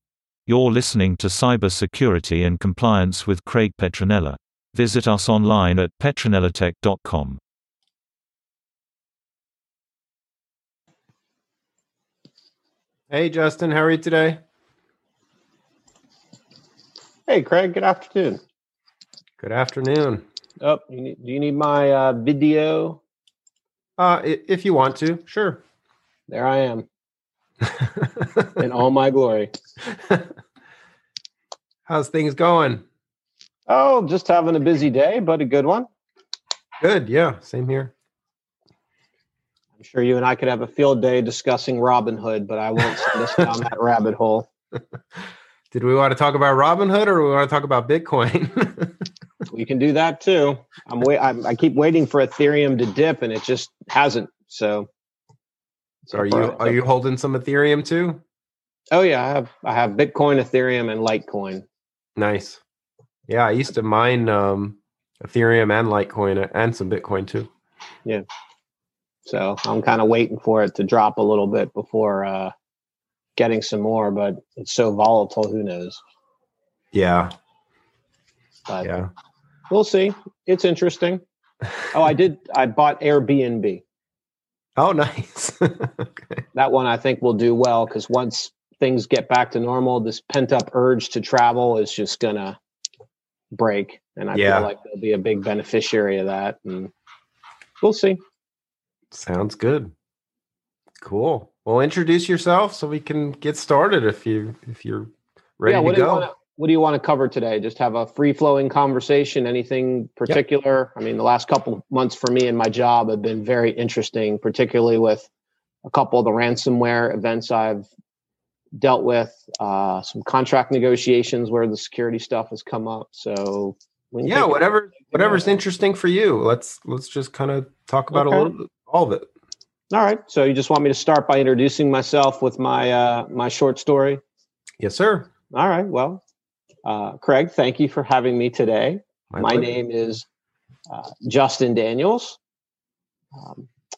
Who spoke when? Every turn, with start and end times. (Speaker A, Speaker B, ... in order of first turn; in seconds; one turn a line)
Speaker A: 0.5-7.4
Speaker B: 13.1-14.4
Speaker C: 17.3-18.4
Speaker B: 19.4-20.2
Speaker C: 20.6-23.0
Speaker B: 24.0-25.6
Speaker C: 26.3-26.9
Speaker B: 27.8-28.3
Speaker C: 28.6-29.5
Speaker B: 31.9-32.9
Speaker C: 33.7-35.9
Speaker B: 36.8-37.9
Speaker C: 39.8-44.5
Speaker B: 45.7-49.0
Speaker C: 49.5-54.9
Speaker C: 56.1-56.8
Speaker B: 56.1-58.2
Speaker C: 58.9-61.6
Speaker B: 62.2-62.6
Speaker B: 63.3-67.5
Speaker C: 69.3-72.5
Speaker C: 73.4-76.0
Speaker B: 76.9-77.3
Speaker B: 78.8-79.1
Speaker C: 79.7-81.2
Speaker C: 81.9-83.8
Speaker B: 84.8-86.4
Speaker C: 86.5-92.6
Speaker C: 93.5-96.9
Speaker B: 94.3-94.7
Speaker C: 97.8-98.2
Speaker B: 99.1-99.9
Speaker B: 101.0-106.3
Speaker C: 105.7-115.3
Speaker C: 115.9-117.9
Speaker C: 118.8-125.5
Speaker B: 124.2-129.3
Speaker C: 128.1-128.5
Speaker C: 129.9-134.2
Speaker B: 134.8-135.3
Speaker C: 135.5-136.2
Speaker C: 136.8-140.3
Speaker B: 139.3-139.7
Speaker C: 140.9-142.4
Speaker C: 143.4-143.7